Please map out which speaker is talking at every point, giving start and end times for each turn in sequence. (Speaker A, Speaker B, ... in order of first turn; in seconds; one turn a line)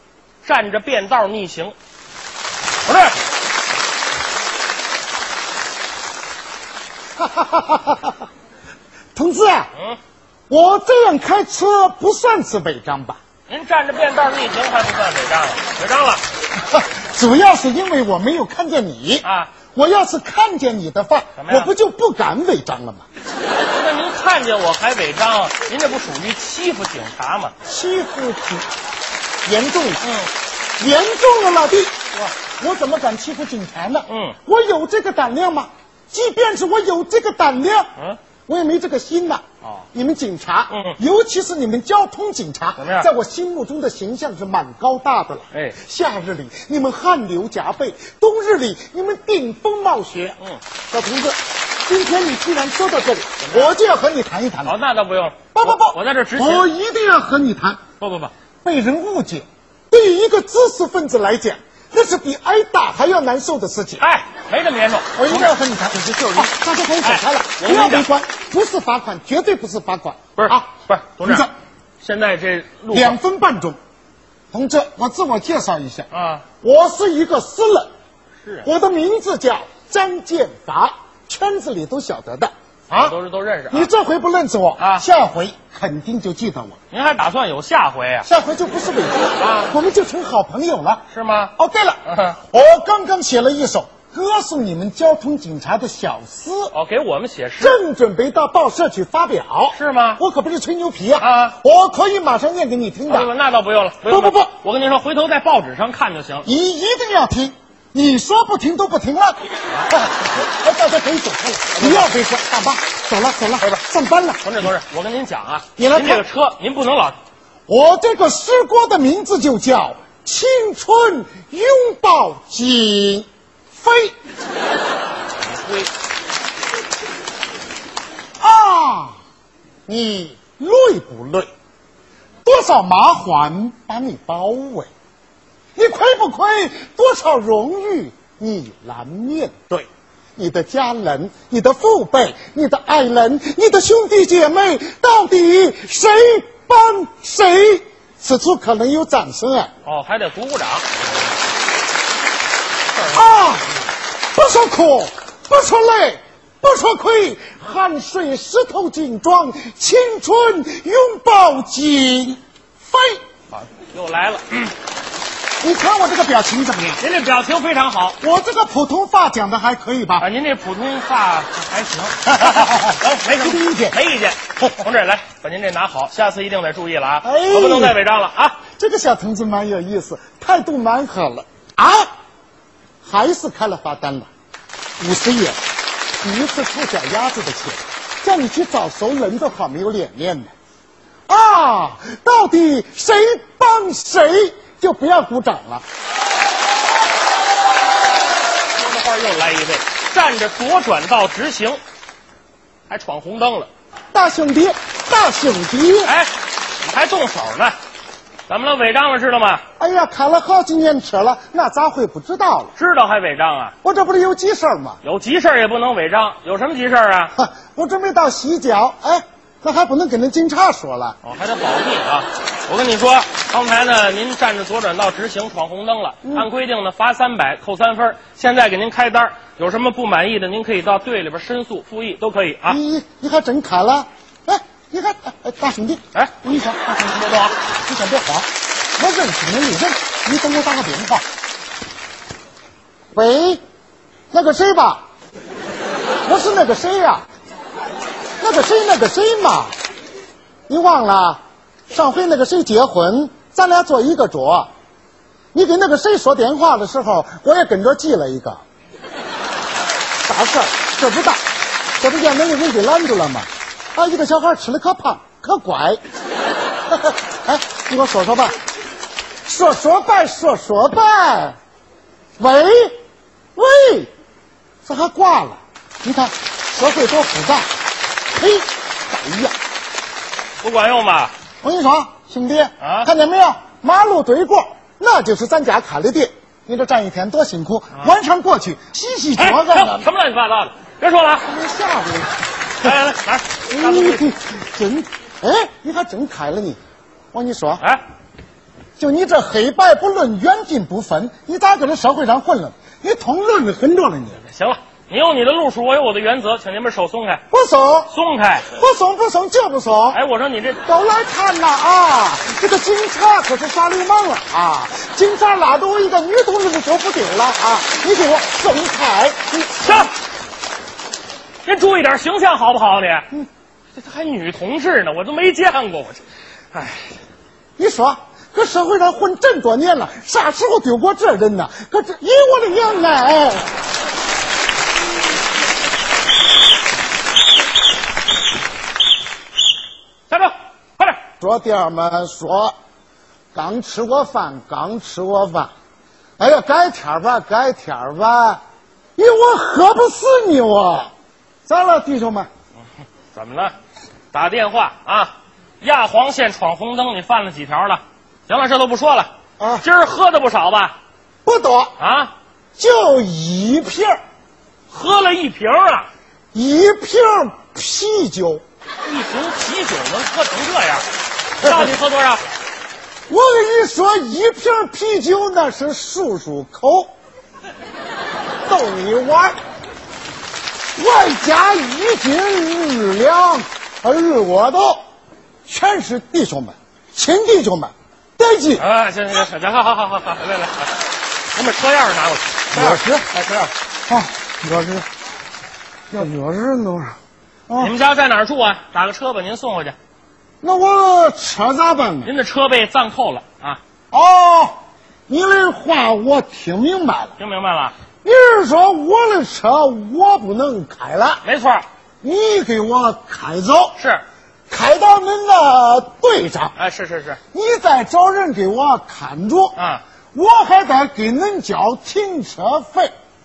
Speaker A: 0.4-1.7
Speaker A: 2.8-3.2
Speaker B: 7.2-8.2
Speaker B: 9.1-9.7
Speaker B: 10.5-13.2
Speaker A: 13.5-16.2
Speaker B: 16.6-23.0
Speaker A: 19.2-19.5
Speaker A: 21.4-21.7
Speaker A: 23.7-27.5
Speaker B: 27.6-28.6
Speaker B: 29.4-30.0
Speaker A: 30.0-30.3
Speaker B: 30.8-37.9
Speaker A: 34.1-34.4
Speaker B: 38.5-50.4
Speaker A: 40.7-41.0
Speaker A: 42.8-43.1
Speaker A: 45.5-45.8
Speaker B: 50.9-54.7
Speaker A: 53.4-53.7
Speaker A: 54.6-56.7
Speaker B: 55.5-57.8
Speaker A: 58.0-58.3
Speaker B: 58.6-64.0
Speaker A: 64.0-68.1
Speaker B: 65.2-70.7
Speaker A: 70.3-71.5
Speaker B: 71.2-71.5
Speaker A: 72.0-73.2
Speaker B: 72.9-73.8
Speaker B: 74.5-76.1
Speaker A: 76.1-76.4
Speaker B: 76.6-77.9
Speaker A: 78.4-78.7
Speaker B: 78.6-83.1
Speaker A: 82.9-83.9
Speaker B: 83.7-86.7
Speaker A: 84.8-85.0
Speaker A: 86.9-88.3
Speaker B: 88.2-91.0
Speaker A: 89.4-89.7
Speaker A: 91.1-91.5
Speaker B: 91.5-92.0
Speaker A: 92.0-92.4
Speaker B: 92.5-96.7
Speaker A: 96.7-97.8
Speaker B: 97.6-103.3
Speaker A: 99.7-100.2
Speaker A: 101.2-101.5
Speaker A: 103.1-106.5
Speaker B: 104.0-104.5
Speaker B: 106.4-114.7
Speaker A: 111.7-112.1
Speaker A: 114.4-117.2
Speaker B: 115.8-116.2
Speaker B: 117.7-124.1
Speaker A: 125.4-125.9
Speaker B: 128.4-129.2
Speaker B: 129.9-131.5
Speaker B: 132.4-134.9
Speaker B: 135.8-149.7
Speaker A: 149.8-150.9
Speaker A: 152.9-153.4
Speaker B: 153.1-153.8
Speaker B: 154.3-163.2
Speaker A: 163.5-164.7
Speaker B: 165.6-167.0
Speaker A: 167.0-168.2
Speaker B: 168.2-170.3
Speaker A: 170.2-178.6
Speaker B: 172.2-174.0
Speaker B: 177.2-178.0
Speaker B: 178.8-182.1
Speaker B: 183.0-184.3
Speaker B: 185.0-185.6
Speaker B: 186.2-190.5
Speaker B: 191.3-195.8
Speaker A: 198.7-201.8
Speaker A: 202.9-203.7
Speaker B: 204.1-206.1
Speaker A: 206.0-207.7
Speaker A: 208.5-209.6
Speaker B: 209.8-212.7
Speaker A: 212.8-213.7
Speaker B: 213.8-215.0
Speaker A: 215.0-217.3
Speaker B: 217.3-221.2
Speaker A: 221.2-232.8
Speaker B: 232.7-241.2
Speaker A: 237.1-237.5
Speaker B: 243.1-243.6
Speaker B: 244.3-245.0
Speaker B: 246.2-247.2
Speaker B: 248.4-249.7
Speaker B: 250.7-254.7
Speaker B: 255.5-258.6
Speaker B: 260.2-261.4
Speaker B: 262.0-266.0
Speaker B: 266.9-268.6
Speaker B: 269.4-271.6
Speaker B: 272.4-273.0
Speaker B: 273.6-274.1
Speaker B: 274.8-277.7
Speaker B: 278.3-279.5
Speaker A: 280.6-281.3
Speaker B: 281.6-290.1
Speaker A: 282.8-283.1
Speaker A: 289.4-291.4
Speaker B: 291.4-292.9
Speaker A: 292.8-294.2
Speaker B: 293.7-296.8
Speaker B: 297.3-297.8
Speaker B: 299.0-304.4
Speaker A: 304.4-307.4
Speaker B: 307.5-308.1
Speaker A: 308.1-308.7
Speaker B: 308.7-310.2
Speaker A: 310.1-310.8
Speaker B: 310.9-320.1
Speaker A: 319.8-320.1
Speaker A: 321.6-323.3
Speaker A: 323.9-326.2
Speaker A: 326.7-327.1
Speaker B: 327.8-333.7
Speaker A: 340.3-341.2
Speaker B: 341.4-342.7
Speaker B: 343.5-345.7
Speaker B: 346.4-348.6
Speaker B: 349.1-351.1
Speaker B: 351.6-352.5
Speaker A: 353.3-353.7
Speaker A: 354.3-359.3
Speaker B: 359.6-359.9
Speaker A: 359.8-360.9
Speaker B: 361.4-361.9
Speaker A: 362.0-362.3
Speaker B: 362.8-364.2
Speaker A: 364.9-366.1
Speaker B: 366.5-368.6
Speaker A: 369.0-371.0
Speaker A: 371.6-372.4
Speaker B: 371.6-371.9
Speaker B: 373.3-377.1
Speaker B: 378.7-379.6
Speaker B: 380.9-385.0
Speaker B: 385.7-388.8
Speaker A: 388.8-391.0
Speaker A: 391.5-393.7
Speaker B: 392.7-393.2
Speaker B: 394.1-395.1
Speaker B: 396.1-397.1
Speaker B: 397.7-397.9
Speaker A: 397.8-399.9
Speaker B: 400.6-402.3
Speaker A: 402.2-403.8
Speaker B: 404.1-404.7
Speaker B: 405.3-407.3
Speaker A: 407.4-407.9
Speaker B: 408.2-411.4
Speaker A: 411.4-411.8
Speaker B: 412.2-414.0
Speaker A: 414.0-414.2
Speaker B: 414.7-416.8
Speaker A: 416.8-417.4
Speaker B: 417.5-419.8
Speaker A: 419.8-420.0
Speaker B: 420.3-423.1